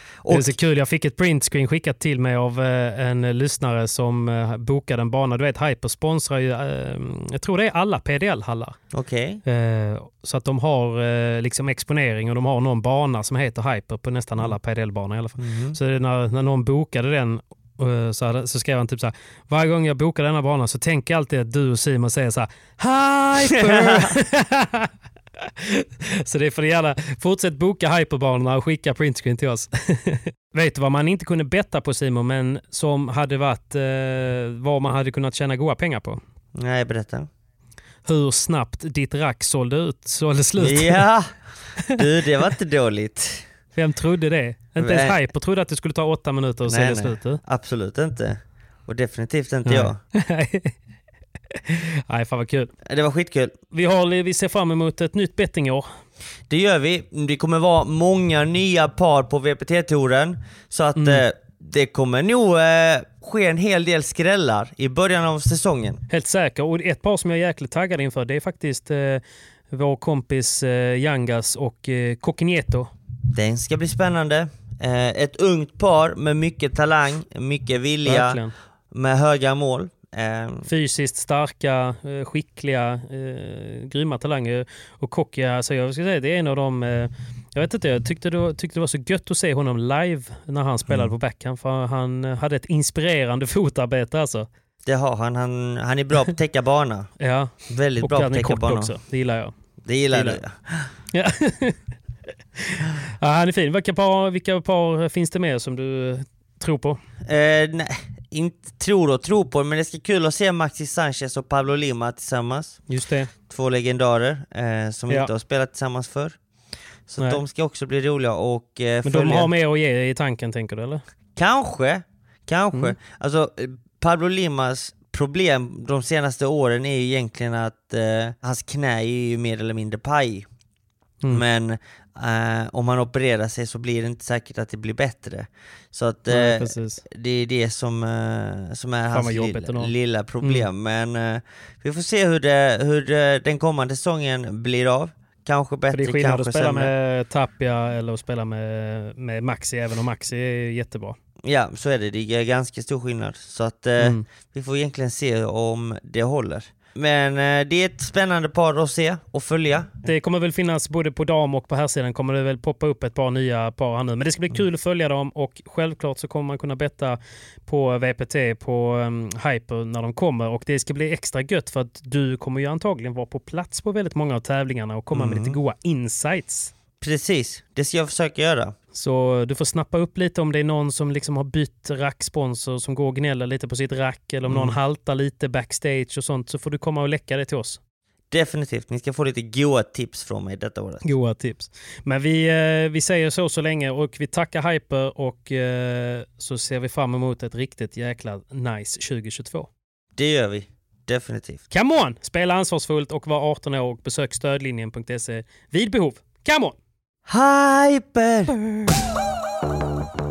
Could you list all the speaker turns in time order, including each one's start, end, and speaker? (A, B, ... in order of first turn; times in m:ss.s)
0:00.2-0:00.6 A
0:00.3-0:08.8 B
0:08.9-0:09.4 A
0:09.5-0:36.2 B
0:15.4-0:15.8 A
0:23.6-0:24.1 A
0:36.6-0:37.3 A
0:38.1-0:41.1 B
0:40.6-0:43.5 A
0:43.8-0:47.4 B
0:44.8-0:45.2 A
0:46.7-0:50.0 A
0:49.6-0:50.7 B
0:51.6-0:52.7 B
0:52.9-0:53.6 A
0:53.7-0:55.9 B
0:56.5-1:06.0 A
1:01.0-1:01.2 B
1:06.1-1:12.9 B
1:13.3-1:20.7 A
1:18.1-1:18.5 B
1:20.7-1:34.5 B
1:30.9-1:31.1 A
1:34.8-1:37.1 A
1:37.2-1:39.5 B
1:37.7-1:39.0 A
1:39.9-1:40.9 A
1:40.1-1:40.4 B
1:41.1-1:41.8 B
1:42.7-1:47.0 B
1:47.2-1:52.8 A
1:52.9-1:53.3 B
1:53.5-1:56.4 A
1:57.1-1:59.5 A
1:59.0-2:01.0 B
2:01.4-2:10.5 A
2:11.3-2:26.9 A
2:16.3-2:17.0 B
2:19.1-2:20.7 B
2:25.9-2:31.2 B
2:31.4-2:40.0 A
2:34.0-2:34.2 B
2:40.0-2:56.7 B
2:55.1-2:55.6 A
2:57.0-2:58.8 A
2:58.9-3:07.8 B
3:04.5-3:04.8 A
3:08.3-3:11.1 A
3:11.0-3:19.7 B
3:20.2-3:21.6 A
3:21.7-3:26.8 B
3:27.3-3:28.6 A